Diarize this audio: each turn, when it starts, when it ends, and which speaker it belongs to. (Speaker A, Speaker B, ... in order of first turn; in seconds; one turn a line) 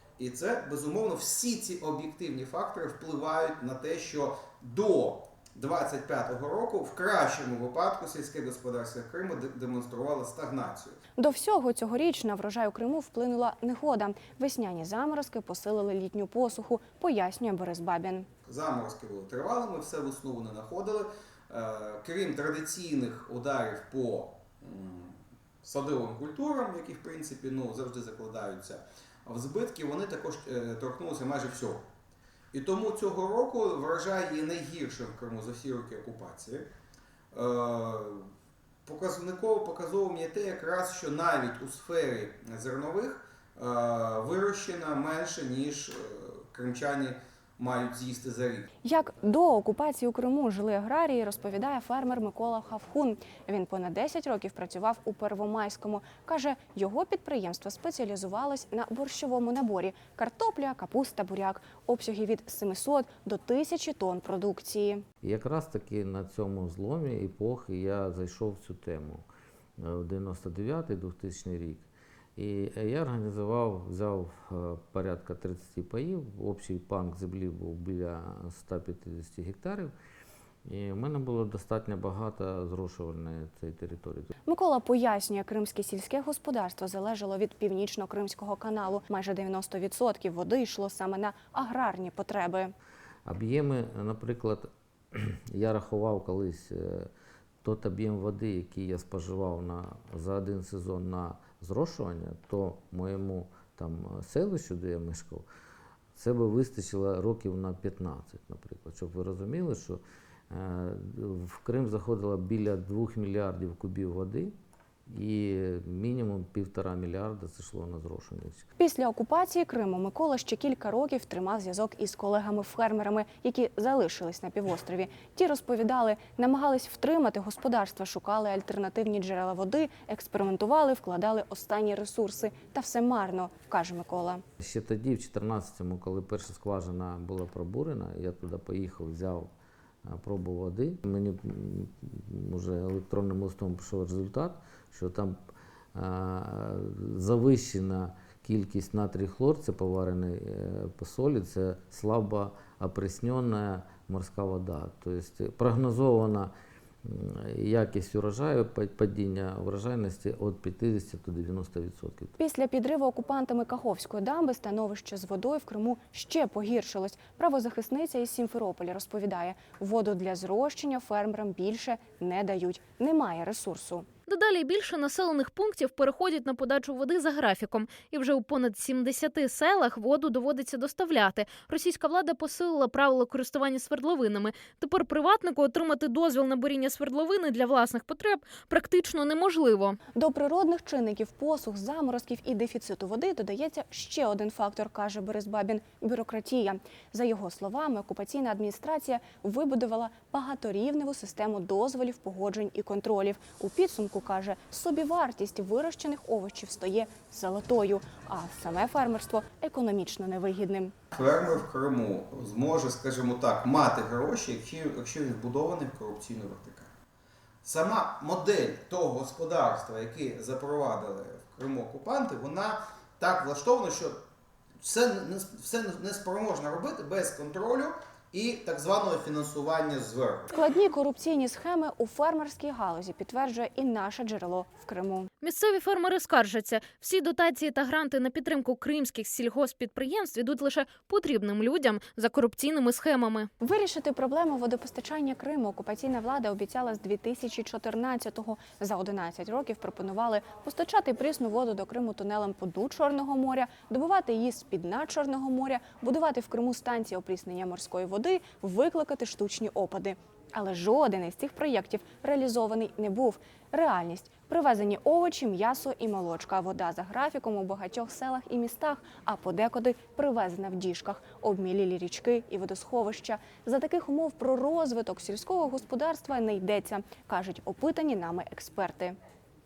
Speaker A: 0.2-11.0
Speaker B: 11.2-18.3
Speaker A: 18.4-31.8
Speaker A: 32.5-36.7
Speaker A: 37.3-38.2
Speaker A: 38.9-48.7
Speaker B: 48.8-65.0
Speaker C: 65.2-69.2
Speaker C: 69.8-79.9
Speaker C: 80.7-84.3
Speaker B: 84.5-92.7
Speaker C: 93.2-97.1
Speaker C: 97.6-105.5
Speaker C: 106.1-114.5
Speaker C: 115.1-118.7
Speaker B: 118.8-134.4
Speaker C: 134.6-139.5
Speaker C: 140.0-145.4
Speaker C: 145.9-156.5
Speaker C: 157.0-162.3
Speaker B: 162.4-174.1
Speaker D: 174.3-190.0
Speaker B: 190.1-210.9
Speaker A: 211.1-216.9
Speaker A: 217.6-224.2
Speaker A: 224.8-230.5
Speaker B: 230.5-235.3
Speaker D: 235.4-243.5
Speaker B: 243.6-279.2